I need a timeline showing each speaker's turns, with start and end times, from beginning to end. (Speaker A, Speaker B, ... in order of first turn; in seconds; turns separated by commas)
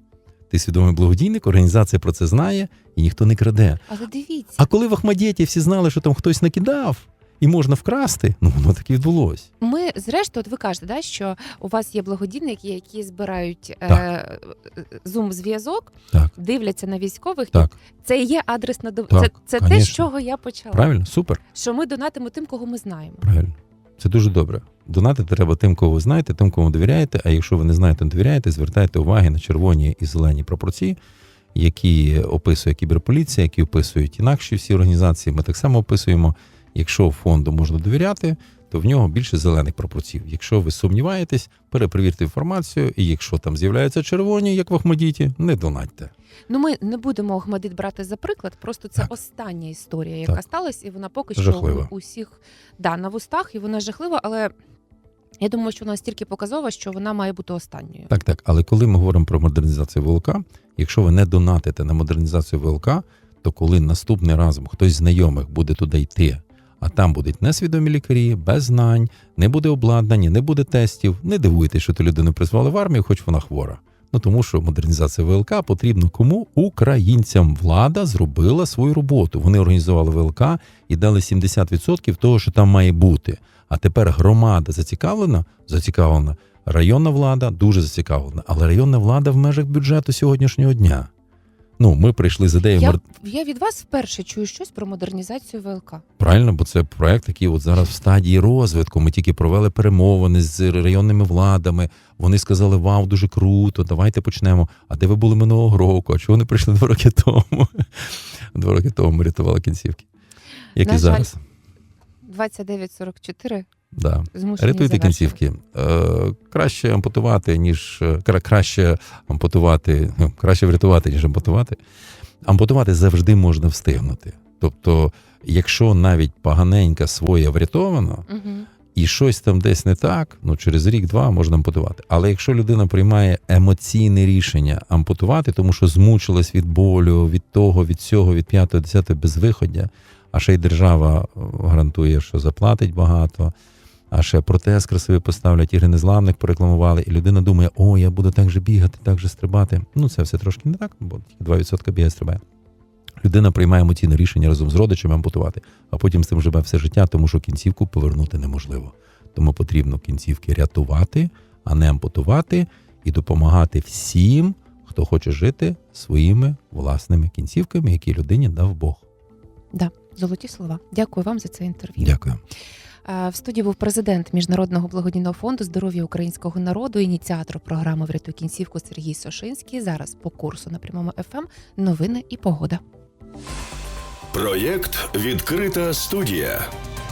Speaker A: 0.5-3.8, Speaker B: 3.9-4.7, Speaker A: 4.6-9.5, Speaker B: 9.6-20.9, Speaker A: 19.1-20.1, Speaker A: 20.7-21.4, Speaker B: 21.5-23.2, Speaker A: 23.2-31.0, Speaker A: 31.5-46.1, Speaker B: 46.5-54.5, Speaker A: 51.4-51.9, Speaker B: 55.4-58.1, Speaker A: 58.1-91.1, Speaker A: 91.8-93.0, Speaker B: 92.8-96.0, Speaker A: 96.2-110.1, Speaker A: 110.7-111.4, Speaker B: 110.8-111.3, Speaker B: 112.2-113.7, Speaker A: 113.9-121.8, Speaker B: 114.3-115.4, Speaker A: 122.4-128.2, Speaker B: 128.3-128.7, Speaker A: 128.9-143.5, Speaker A: 144.1-152.4, Speaker A: 153.2-169.0, Speaker B: 169.7-172.1, Speaker A: 172.0-172.4, Speaker B: 173.0-182.8, Speaker C: 184.3-186.7